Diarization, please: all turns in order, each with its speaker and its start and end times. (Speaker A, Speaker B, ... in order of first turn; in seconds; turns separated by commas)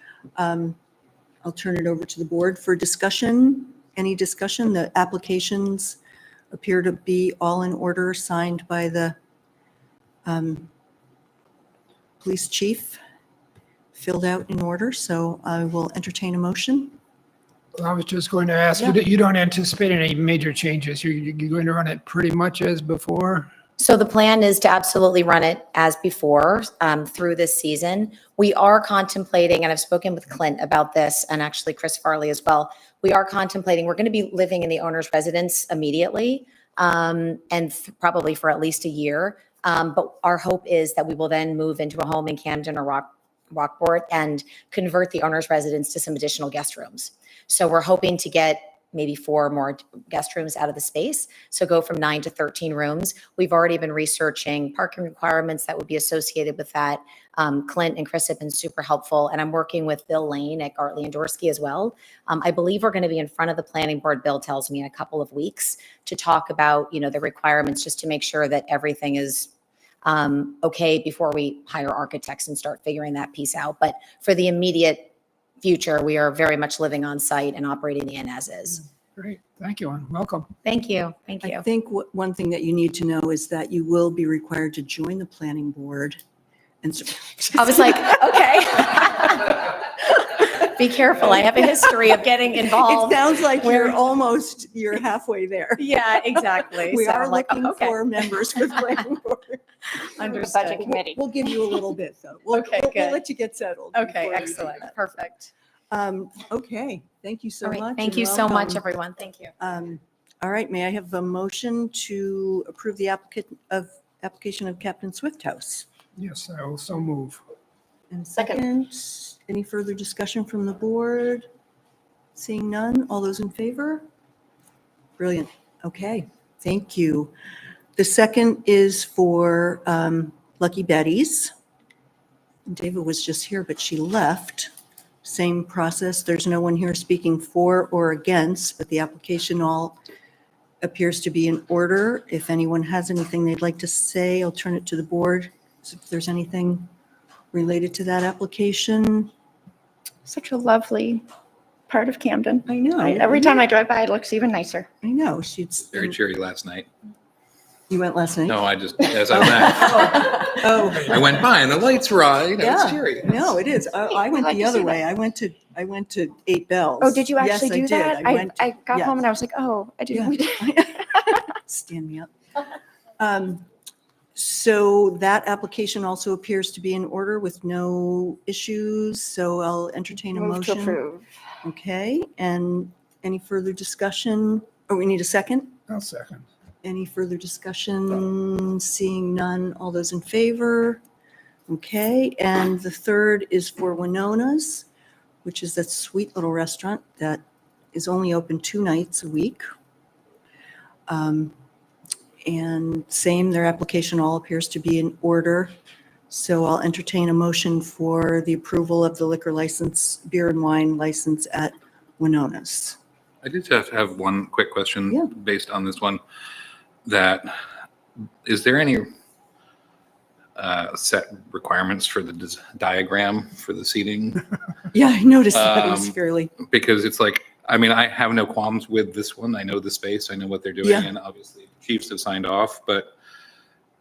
Speaker A: 0.3-0.8, Speaker A: 1.4-6.0, Speaker A: 6.5-9.2, Speaker A: 10.2-10.7, Speaker A: 12.2-13.0, Speaker A: 13.9-17.0, Speaker B: 17.8-23.5, Speaker C: 23.8-69.5, Speaker C: 70.0-75.1, Speaker C: 75.6-78.8, Speaker B: 79.2-80.5, Speaker C: 80.6-81.6, Speaker A: 81.4-86.2, Speaker A: 86.8-88.5, Speaker C: 87.5-94.0, Speaker A: 92.7-95.8, Speaker C: 95.8-98.0, Speaker A: 96.4-104.9, Speaker D: 100.2-101.2, Speaker C: 102.5-103.2, Speaker C: 103.9-105.5, Speaker A: 105.9-108.8, Speaker C: 107.6-109.5, Speaker A: 109.6-115.8, Speaker B: 116.2-117.4, Speaker A: 118.1-121.5, Speaker D: 118.4-118.7, Speaker A: 122.3-124.0, Speaker A: 125.2-127.3, Speaker A: 128.0-131.5, Speaker A: 132.7-134.7, Speaker A: 135.2-140.0, Speaker A: 140.8-146.9, Speaker A: 147.5-149.3, Speaker D: 150.2-151.2, Speaker D: 151.9-154.9, Speaker A: 152.7-153.6, Speaker A: 155.0-156.2, Speaker E: 155.9-156.9, Speaker A: 157.9-158.6, Speaker E: 158.5-163.5, Speaker A: 159.3-161.4, Speaker A: 162.6-169.2, Speaker D: 164.2-165.0, Speaker D: 167.0-171.3, Speaker A: 170.1-172.3, Speaker A: 173.2-173.7, Speaker A: 174.3-181.0, Speaker D: 180.2-181.2, Speaker A: 181.6-185.7, Speaker B: 185.9-186.4, Speaker A: 186.8-191.0, Speaker A: 191.7-194.8, Speaker A: 195.4-199.6, Speaker A: 201.1-201.5, Speaker A: 202.4-205.7, Speaker A: 206.3-213.0, Speaker E: 213.4-216.2, Speaker E: 217.0-217.5, Speaker E: 218.4-219.1, Speaker E: 220.6-224.4, Speaker A: 224.9-226.5, Speaker E: 225.5-233.1, Speaker A: 230.8-231.1